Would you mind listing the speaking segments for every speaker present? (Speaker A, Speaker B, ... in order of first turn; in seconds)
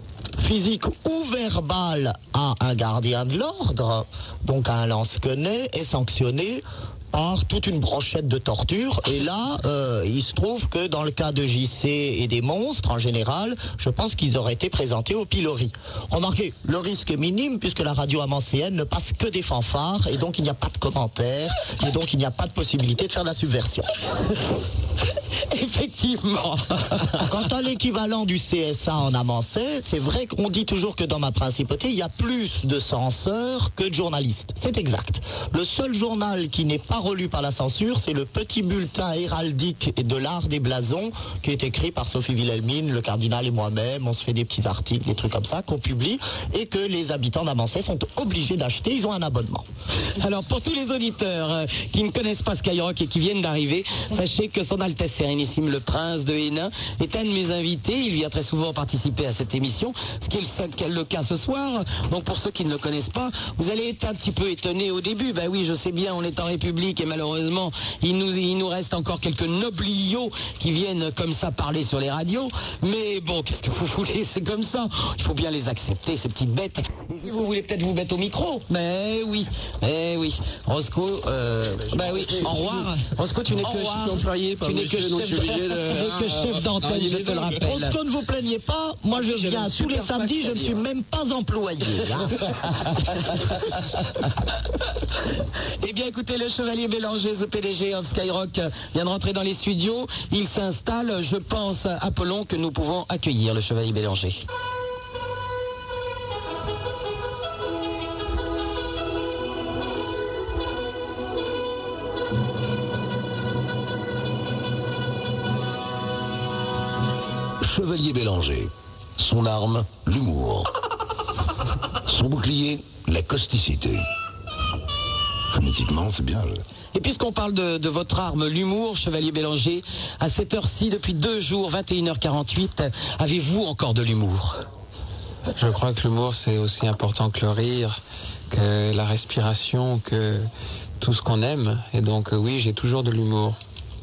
Speaker A: 0.4-23.9, 27.2-49.7, 87.6-92.6
Speaker B: 25.5-27.3, 50.2-88.0, 89.1-90.8, 92.5-93.6, 95.8-104.5, 126.9-134.6
Speaker C: 81.9-82.9, 83.5-87.6, 135.6-138.0, 138.5-140.5, 141.0-143.6
Speaker D: 117.6-120.7, 122.1-124.0, 125.5-126.6